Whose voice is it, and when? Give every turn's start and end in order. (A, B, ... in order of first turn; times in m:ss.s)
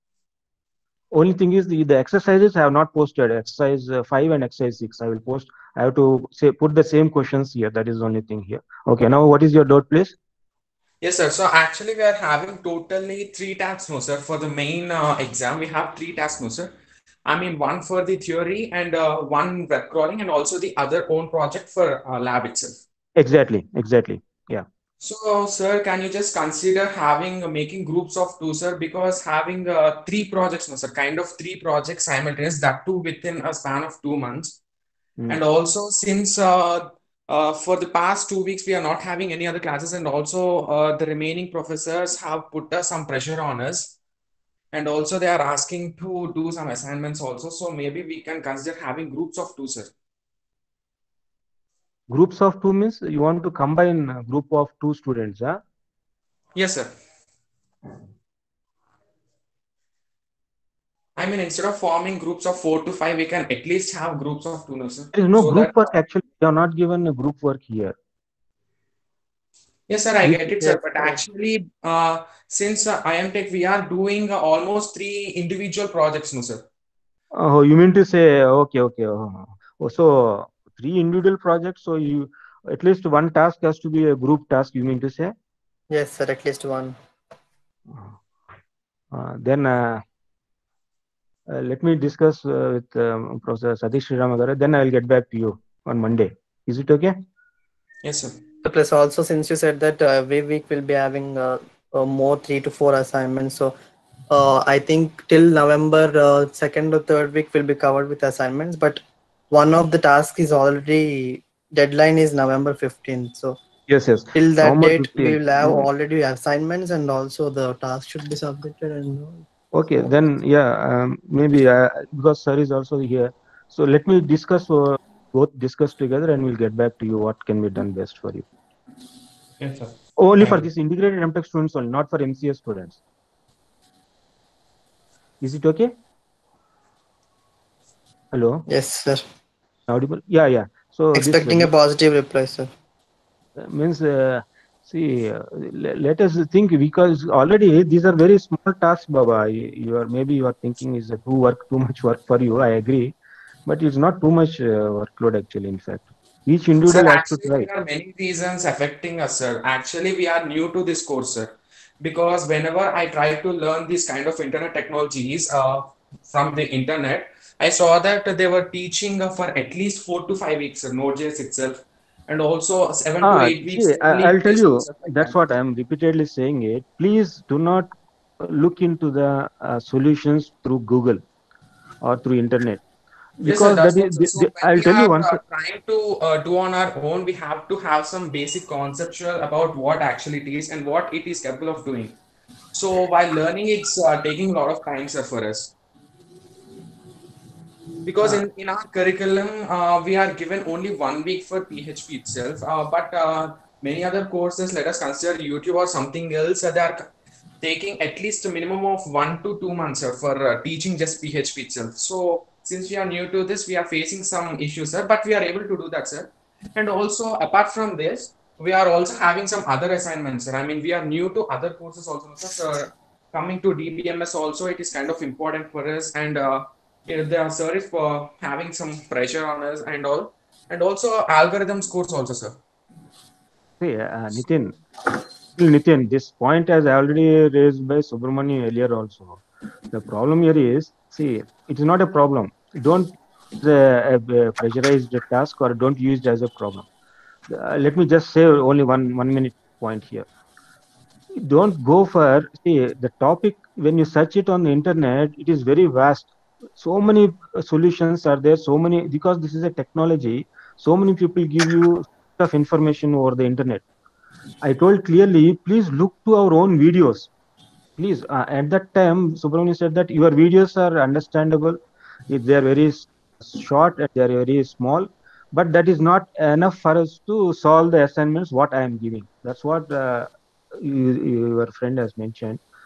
0:01.1-0:10.2 A
0:11.0-0:16.7 B
0:17.2-0:22.8 B
0:23.2-0:24.6 A
0:25.0-0:34.6 B
0:35.3-0:43.9 B
0:44.7-0:49.9 B
0:52.1-0:55.6 A
0:56.5-0:56.9 B
1:01.2-1:05.8 B
1:05.1-1:07.9 A
1:09.9-1:16.6 B
1:17.3-1:25.3 A
1:25.9-1:26.9 C
1:27.9-1:28.1 A
1:29.1-1:30.0 A
1:31.5-1:37.2 A
1:38.0-1:38.4 B
1:38.6-1:43.7 C
1:44.3-1:53.6 C
1:53.9-1:55.9 A
1:54.3-1:59.4 C
1:59.7-2:08.4 A
2:09.6-2:10.6 B
2:10.2-2:13.0 A
2:15.4-2:15.9 A
2:18.3-2:18.6 A
2:18.7-2:19.2 C
2:19.9-2:21.7 A
2:21.1-2:22.7 C
2:23.6-2:33.1 A
2:33.6-2:37.7 A
2:36.9-2:55.4 B
2:53.2-2:57.9 A
2:58.4-3:01.2 A
3:02.0-3:02.8 A
3:03.4-3:05.4 A
3:03.4-3:12.2 B
3:12.7-3:15.7 B
3:18.0-3:27.1 B
3:27.6-3:52.6 B
3:53.8-3:54.8 A
3:55.6-4:06.9 A
4:07.5-4:10.3 A
4:11.4-4:23.8 A
4:24.6-4:27.3 A
4:28.0-4:42.6 A